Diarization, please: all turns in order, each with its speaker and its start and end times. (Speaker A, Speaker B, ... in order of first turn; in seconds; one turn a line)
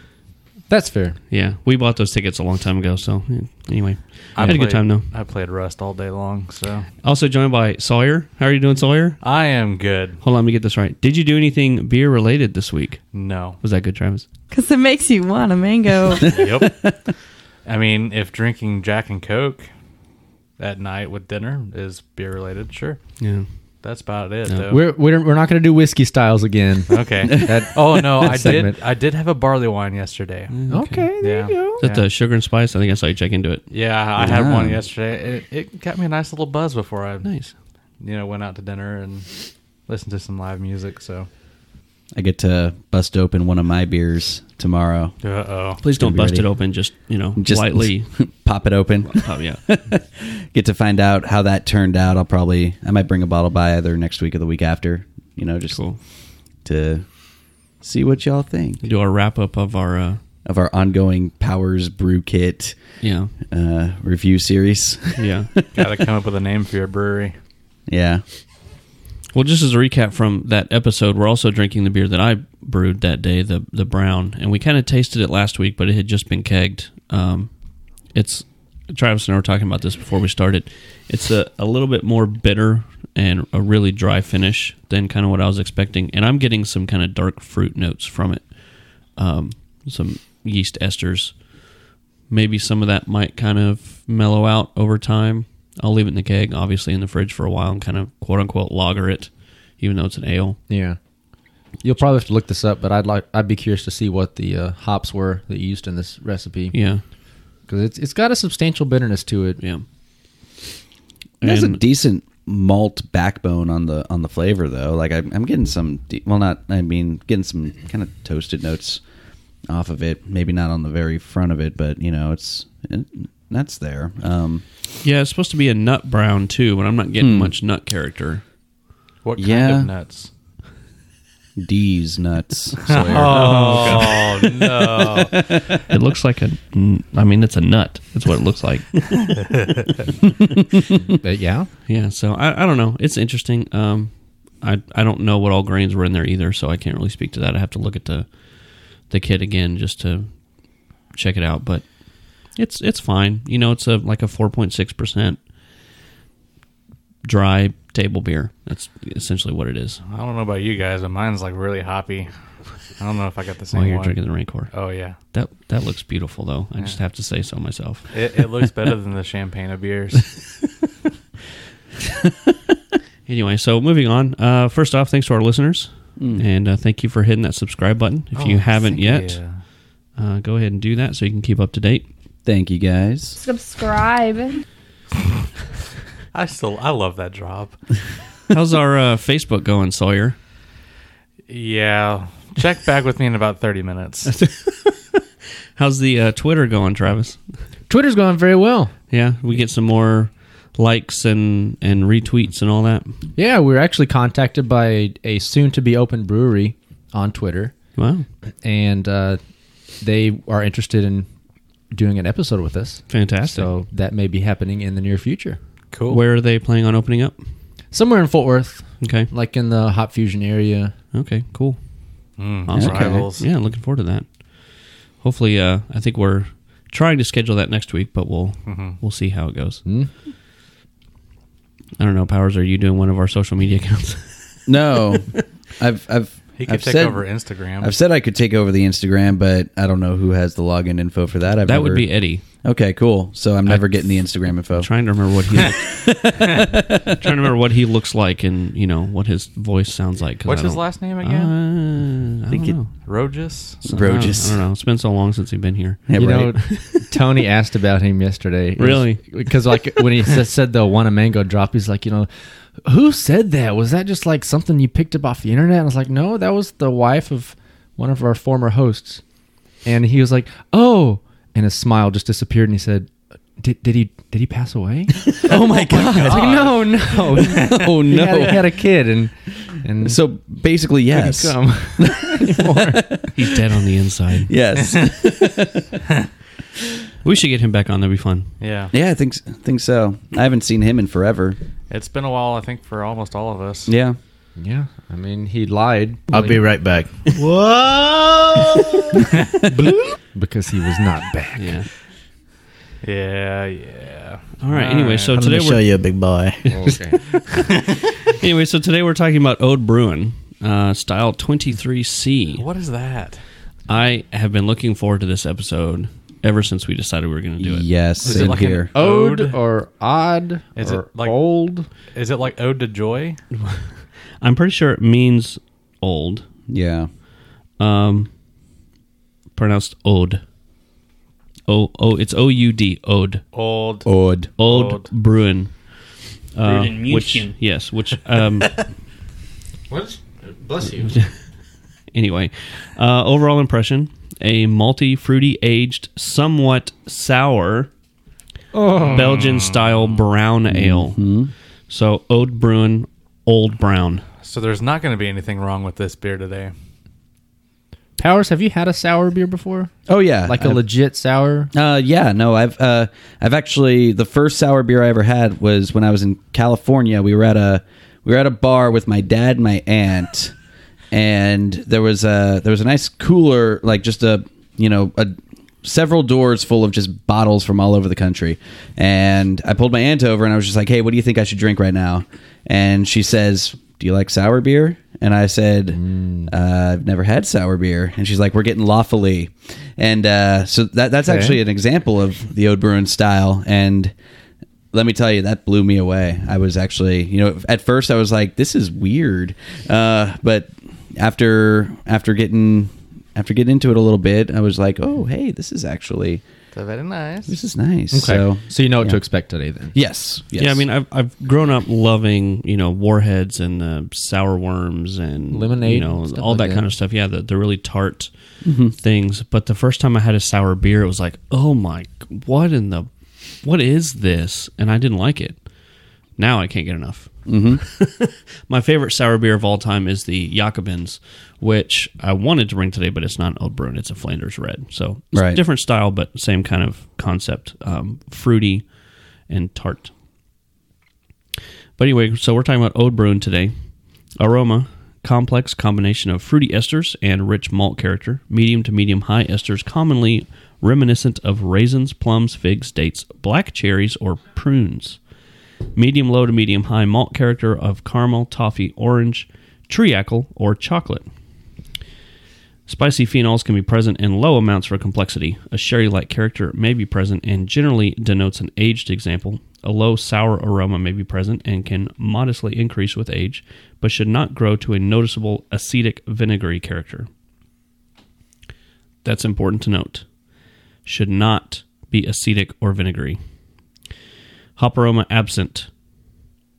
Speaker A: 0.7-1.2
Speaker B: 1.3-5.0
Speaker C: 4.3-6.9
Speaker B: 7.0-9.2
Speaker C: 9.2-10.2
Speaker B: 10.2-13.0
Speaker C: 13.1-13.6
Speaker B: 13.6-14.3
Speaker D: 14.5-16.4
Speaker C: 16.2-16.9
Speaker E: 16.4-16.7
Speaker C: 17.6-19.7
Speaker C: 20.6-23.0
Speaker B: 23.2-23.5
Speaker C: 23.8-24.8
Speaker A: 24.7-28.8
Speaker C: 26.9-30.5
Speaker B: 30.5-31.1
Speaker A: 30.7-31.8
Speaker C: 31.2-32.0
Speaker B: 31.8-33.6
Speaker C: 33.7-37.3
Speaker E: 34.2-34.8
Speaker B: 37.2-37.5
Speaker C: 38.0-41.3
Speaker E: 42.1-45.1
Speaker C: 45.2-45.8
Speaker B: 45.8-48.1
Speaker E: 45.9-46.5
Speaker E: 47.4-55.8
Speaker B: 49.0-49.6
Speaker B: 55.7-56.0
Speaker E: 56.6-57.0
Speaker E: 57.8-58.8
Speaker B: 58.8-60.2
Speaker E: 60.4-62.8
Speaker B: 63.0-63.3
Speaker E: 63.4-65.3
Speaker B: 65.2-65.5
Speaker C: 65.7-67.3
Speaker E: 67.9-68.2
Speaker B: 69.3-77.5
Speaker B: 78.1-88.5
Speaker B: 89.1-91.3
Speaker B: 92.3-100.6
Speaker A: 100.7-101.0
Speaker A: 101.8-106.8
Speaker B: 106.7-107.0
Speaker A: 107.7-109.6
Speaker B: 109.6-109.8
Speaker E: 111.4-119.0
Speaker B: 111.4-111.8
Speaker E: 119.7-124.6
Speaker B: 125.0-128.4
Speaker E: 127.2-127.5
Speaker C: 129.2-130.3
Speaker E: 129.4-129.9
Speaker E: 131.6-135.7
Speaker C: 132.9-135.4
Speaker B: 133.3-134.1
Speaker B: 135.9-139.3
Speaker C: 139.4-139.9
Speaker A: 141.2-141.7
Speaker B: 141.8-148.3
Speaker B: 149.1-150.3
Speaker B: 151.1-151.8
Speaker B: 152.4-155.4
Speaker B: 157.2-160.0
Speaker C: 160.0-162.3
Speaker C: 163.0-164.1
Speaker B: 163.7-164.7
Speaker C: 164.7-165.2
Speaker B: 165.3-168.1
Speaker C: 168.1-170.3
Speaker B: 173.3-179.4
Speaker E: 176.2-176.4
Speaker C: 178.3-179.6
Speaker B: 180.2-182.1
Speaker E: 182.4-183.4
Speaker D: 183.4-184.6
Speaker C: 186.3-187.8
Speaker B: 188.5-190.3
Speaker C: 191.5-194.3
Speaker B: 195.8-197.4
Speaker A: 197.9-198.9
Speaker B: 199.1-203.2
Speaker A: 203.4-207.8
Speaker B: 207.9-208.2
Speaker A: 208.6-209.4
Speaker A: 210.0-211.3
Speaker A: 211.9-215.6
Speaker B: 213.1-213.7
Speaker C: 215.9-216.2
Speaker B: 216.1-217.3
Speaker A: 217.9-220.9
Speaker B: 219.0-219.3
Speaker B: 221.1-221.8
Speaker C: 222.4-223.4
Speaker B: 222.7-224.3
Speaker E: 222.7-223.2
Speaker B: 225.2-229.8
Speaker C: 228.7-229.0
Speaker A: 229.8-230.1
Speaker B: 232.0-234.4
Speaker E: 234.7-237.2
Speaker C: 236.6-237.9
Speaker E: 237.8-242.1
Speaker B: 241.7-242.4
Speaker E: 242.6-244.9
Speaker B: 243.7-244.1
Speaker B: 244.7-245.8
Speaker E: 245.6-247.2
Speaker B: 247.1-252.9
Speaker C: 250.4-251.5
Speaker C: 253.0-253.8
Speaker E: 253.8-254.6
Speaker B: 253.8-256.8
Speaker E: 256.1-256.6
Speaker A: 256.1-262.3
Speaker B: 258.8-259.2
Speaker A: 262.8-269.2
Speaker A: 269.8-280.2
Speaker E: 275.3-276.7
Speaker C: 275.8-277.7
Speaker E: 277.3-278.8
Speaker E: 280.0-283.3
Speaker A: 281.1-283.1
Speaker B: 283.3-284.5
Speaker E: 284.5-286.0
Speaker C: 284.8-285.1
Speaker B: 287.2-288.5
Speaker C: 288.6-288.9
Speaker E: 288.9-291.6
Speaker C: 291.9-293.9
Speaker E: 293.9-294.1
Speaker A: 294.6-296.6
Speaker F: 296.3-299.1
Speaker A: 299.7-301.8
Speaker B: 301.6-301.9
Speaker C: 303.0-305.4
Speaker B: 304.6-305.8
Speaker F: 305.3-306.8
Speaker A: 306.7-307.2
Speaker B: 308.3-312.6
Speaker C: 312.6-313.4
Speaker B: 313.9-317.9
Speaker E: 317.6-318.9
Speaker C: 318.2-319.6
Speaker A: 318.2-321.9
Speaker C: 320.8-321.4
Speaker C: 322.1-323.4
Speaker B: 323.5-326.5
Speaker E: 326.7-327.1
Speaker B: 327.8-328.3
Speaker B: 329.6-330.4
Speaker B: 331.7-333.4
Speaker C: 333.5-334.1
Speaker E: 334.0-334.5
Speaker B: 334.6-335.7
Speaker C: 334.6-335.1
Speaker B: 336.5-338.8
Speaker F: 336.6-337.5
Speaker A: 339.9-341.2
Speaker B: 341.0-341.3
Speaker B: 342.1-347.9
Speaker A: 348.7-349.4
Speaker C: 348.9-350.1
Speaker B: 349.1-351.2
Speaker E: 350.7-351.5
Speaker B: 351.9-354.2
Speaker C: 354.4-356.7
Speaker A: 358.2-359.9
Speaker E: 360.1-360.8
Speaker A: 360.4-361.7
Speaker E: 361.7-370.5
Speaker E: 371.1-394.1
Speaker A: 385.9-386.5
Speaker A: 391.2-391.6
Speaker E: 394.9-406.4
Speaker C: 406.7-407.5
Speaker E: 407.5-409.2
Speaker A: 408.1-409.9
Speaker E: 409.9-410.8
Speaker B: 410.6-418.3
Speaker A: 415.5-416.8
Speaker E: 418.6-418.9
Speaker B: 418.9-423.1
Speaker B: 423.6-425.6
Speaker B: 426.4-438.8
Speaker E: 427.5-427.8
Speaker E: 435.3-435.6
Speaker B: 439.5-440.1
Speaker B: 442.0-443.7
Speaker B: 444.4-455.2
Speaker B: 455.9-461.3
Speaker B: 462.9-477.3
Speaker B: 479.2-480.2
Speaker B: 481.0-483.4
Speaker B: 484.8-485.9